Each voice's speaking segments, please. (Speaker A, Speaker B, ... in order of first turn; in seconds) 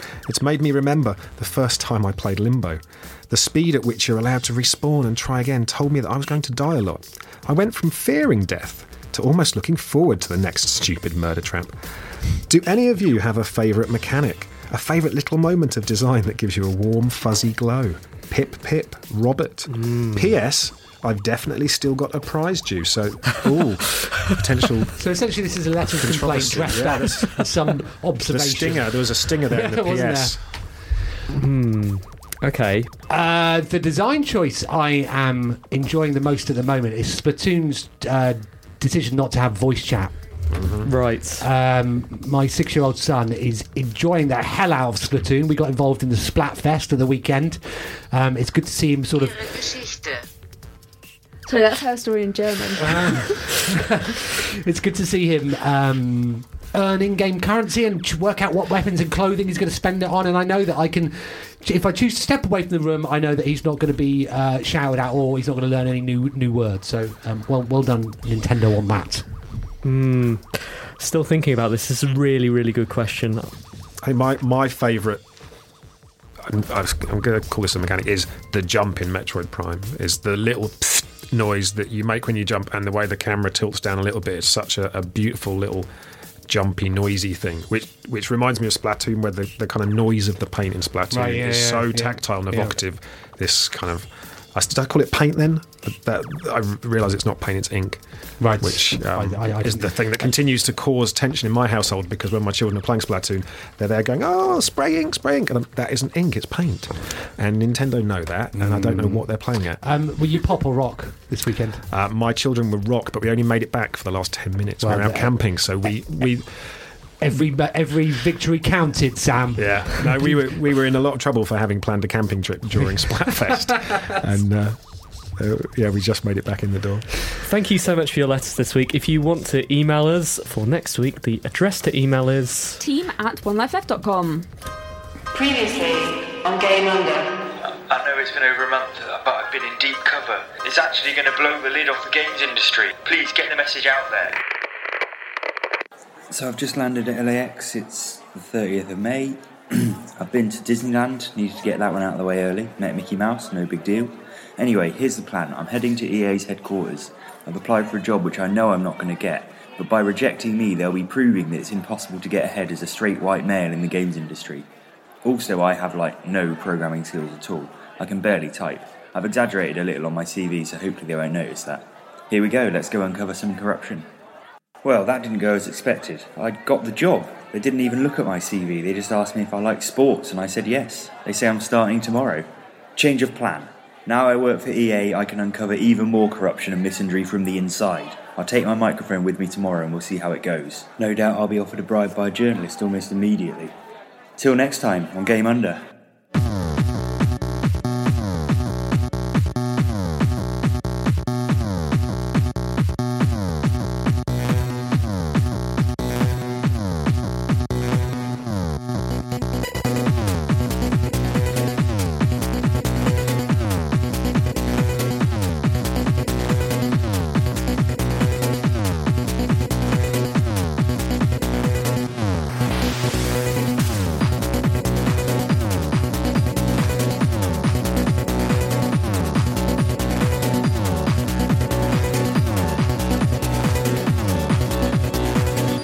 Speaker A: 0.3-25.1, 26.0-27.5, 28.3-30.4, 40.5-40.9, 74.0-75.2, 76.4-85.9, 86.5-98.0, 98.6-109.8, 111.9-116.8, 119.6-127.3
Speaker B: 19.7-20.3, 31.3-32.9, 40.9-41.5, 69.8-73.5, 127.4-132.8
Speaker C: 25.0-30.4, 33.1-40.2, 41.4-49.9, 52.8-69.3, 91.1-92.8, 98.4-100.3, 108.5-111.8, 114.8-115.3, 117.2-120.4
Speaker D: 51.5-53.5, 132.8-134.5
Speaker E: 135.3-144.4
Speaker F: 146.3-164.7, 165.2-174.1, 174.8-193.8, 194.4-195.9